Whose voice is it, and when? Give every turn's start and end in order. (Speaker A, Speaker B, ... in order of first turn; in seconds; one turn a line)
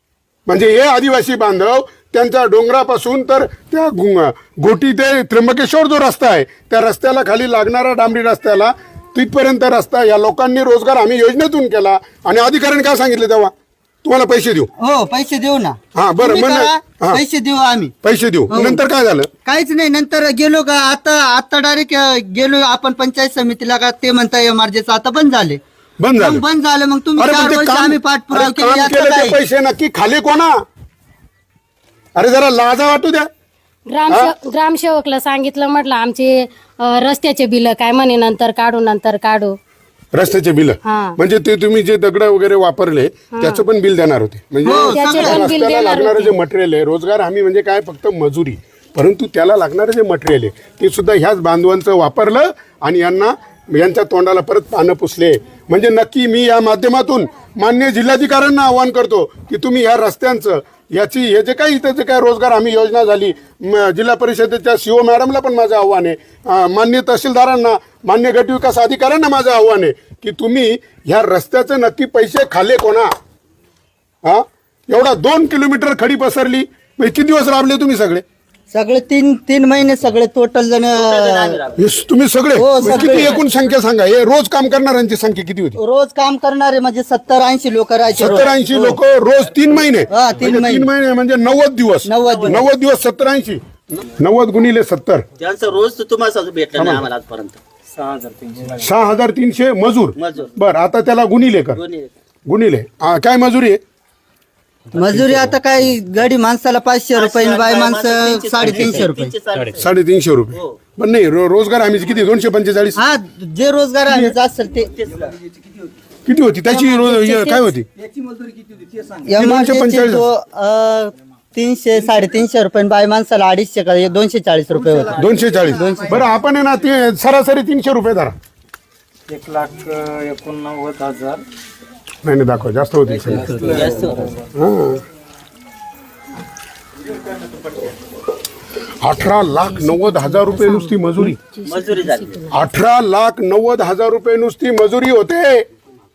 Speaker A: 0.5-13.5
Speaker A: 14.0-14.7
Speaker B: 14.8-17.9
Speaker A: 15.9-17.2
Speaker A: 18.0-19.3
Speaker B: 18.5-18.8
Speaker B: 19.4-25.6
Speaker A: 26.0-26.4
Speaker B: 26.2-29.4
Speaker A: 27.2-30.5
Speaker A: 32.2-33.3
Speaker C: 33.9-39.5
Speaker A: 40.1-73.1
Speaker C: 40.8-41.1
Speaker C: 43.3-43.6
Speaker B: 44.6-45.5
Speaker C: 44.8-46.3
Speaker A: 74.2-78.2
Speaker B: 78.7-81.6
Speaker D: 80.9-81.8
Speaker A: 81.8-85.8
Speaker B: 82.6-83.4
Speaker B: 85.8-89.0
Speaker A: 88.2-95.2
Speaker B: 90.1-90.9
Speaker B: 92.0-92.7
Speaker D: 92.2-92.6
Speaker D: 95.4-97.6
Speaker A: 96.8-97.1
Speaker E: 97.9-98.9
Speaker A: 98.8-101.8
Speaker D: 100.2-100.5
Speaker D: 101.7-102.1
Speaker A: 102.5-103.8
Speaker B: 104.9-109.3
Speaker D: 107.1-109.8
Speaker A: 109.8-113.0
Speaker B: 113.0-114.9
Speaker A: 114.1-114.3
Speaker D: 114.8-115.3
Speaker A: 116.2-117.8
Speaker B: 116.7-117.6
Speaker B: 119.2-125.2
Speaker A: 119.4-120.2
Speaker D: 125.0-125.5
Speaker A: 125.2-128.3
Speaker B: 125.7-126.2
Speaker E: 129.3-131.4
Speaker A: 132.2-133.6
Speaker E: 133.2-134.4
Speaker D: 133.4-134.3
Speaker A: 134.5-135.0
Speaker D: 137.5-137.7
Speaker A: 139.0-141.4
Speaker C: 139.8-142.5
Speaker D: 141.7-142.4
Speaker A: 142.5-145.6